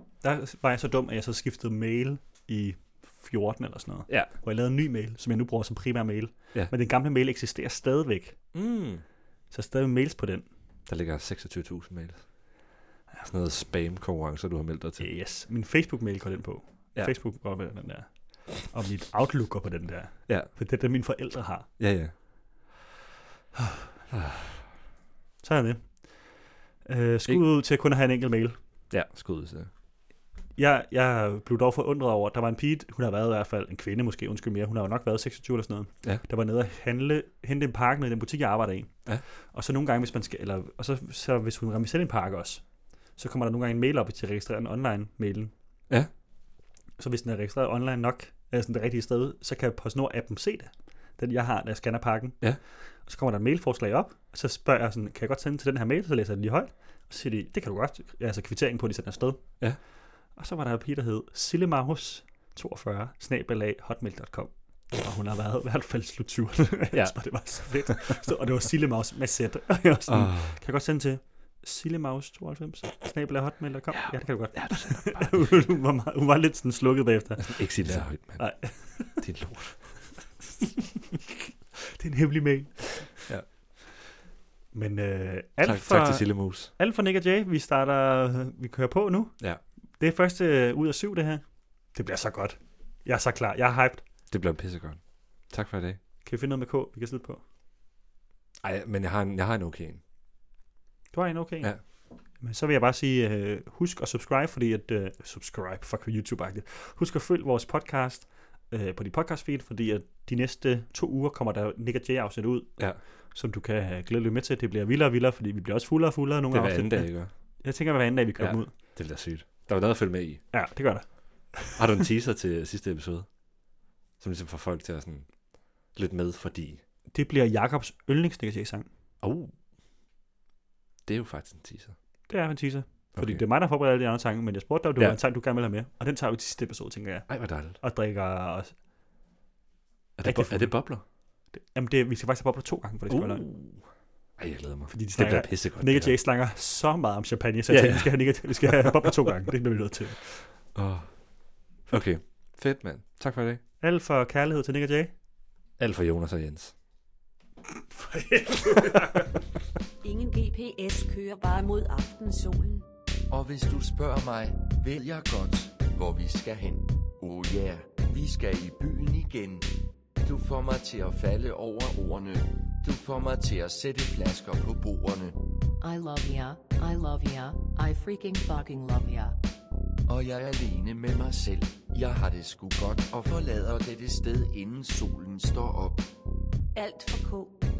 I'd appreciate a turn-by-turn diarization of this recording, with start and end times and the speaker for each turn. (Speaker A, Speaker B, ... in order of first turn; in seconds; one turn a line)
Speaker A: 0.2-8.4
Speaker B: 8.5-9.0
Speaker A: 9.5-10.5
Speaker B: 10.9-12.3
Speaker B: 13.2-15.1
Speaker A: 15.0-21.7
Speaker B: 21.8-22.1
Speaker B: 24.1-24.7
Speaker A: 25.4-28.6
Speaker B: 28.9-29.7
Speaker A: 30.6-39.0
Speaker A: 39.5-42.6
Speaker A: 43.2-45.5
Speaker A: 47.0-52.4
Speaker A: 53.0-59.5
Speaker A: 60.4-79.2
Speaker B: 66.9-68.1
Speaker B: 70.1-70.6
Speaker B: 73.9-75.7
Speaker B: 77.4-79.8
Speaker A: 81.9-83.2
Speaker A: 84.7-89.3
Speaker B: 85.6-86.7
Speaker A: 90.0-91.4
Speaker A: 91.9-94.0
Speaker B: 94.3-96.0
Speaker A: 96.2-97.4
Speaker B: 98.6-100.0
Speaker A: 101.1-101.8
Speaker A: 102.4-112.8
Speaker A: 113.3-118.7
Speaker B: 116.5-117.3
Speaker B: 118.4-120.4
Speaker A: 120.5-121.8
Speaker B: 121.8-123.3
Speaker B: 124.2-125.3
Speaker B: 125.9-126.8
Speaker A: 127.1-128.9
Speaker B: 129.2-129.5
Speaker B: 131.1-131.9
Speaker A: 132.3-137.3
Speaker B: 133.2-133.4
Speaker B: 137.3-137.8
Speaker A: 137.8-138.7
Speaker B: 140.2-141.0
Speaker A: 140.2-140.8
Speaker A: 141.5-143.5
Speaker B: 143.1-143.8
Speaker B: 144.4-146.2
Speaker A: 144.9-150.3
Speaker B: 147.7-149.1
Speaker B: 150.7-151.1
Speaker B: 151.9-153.6
Speaker A: 153.8-155.1
Speaker B: 155.8-156.7
Speaker A: 157.9-159.4
Speaker C: 160.0-162.9
Speaker D: 163.3-169.7
Speaker D: 170.2-175.4
Speaker E: 175.8-179.3
Speaker D: 180.1-186.1
Speaker C: 186.8-187.7